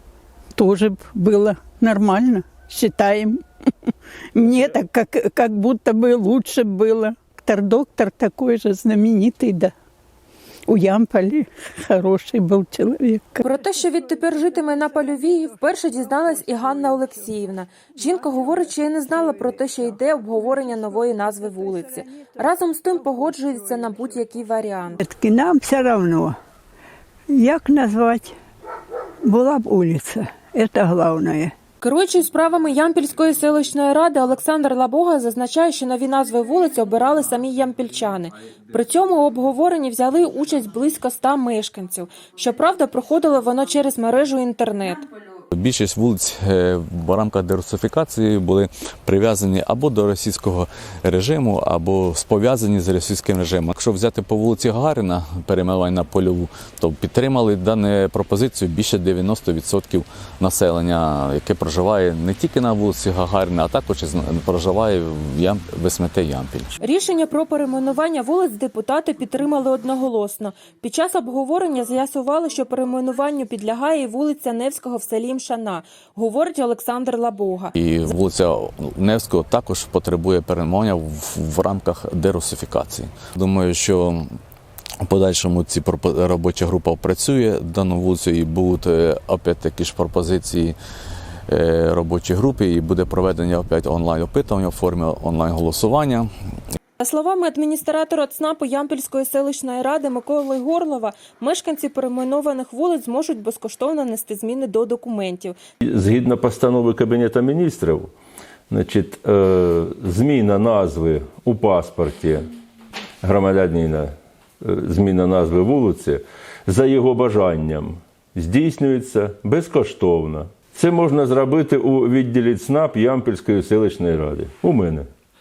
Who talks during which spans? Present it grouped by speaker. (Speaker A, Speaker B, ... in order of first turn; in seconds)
Speaker A: 0.5-3.4, 4.3-9.7, 10.7-13.6, 14.4-15.3, 20.8-22.4, 25.0-26.4, 27.3-28.4, 29.2-31.5
Speaker B: 13.4-25.0, 31.8-45.0, 66.8-77.7, 97.0-105.6
Speaker C: 45.5-66.7, 77.7-84.2, 85.0-90.7, 91.5-96.3
Speaker D: 105.8-108.1, 108.7-112.5, 113.2-125.1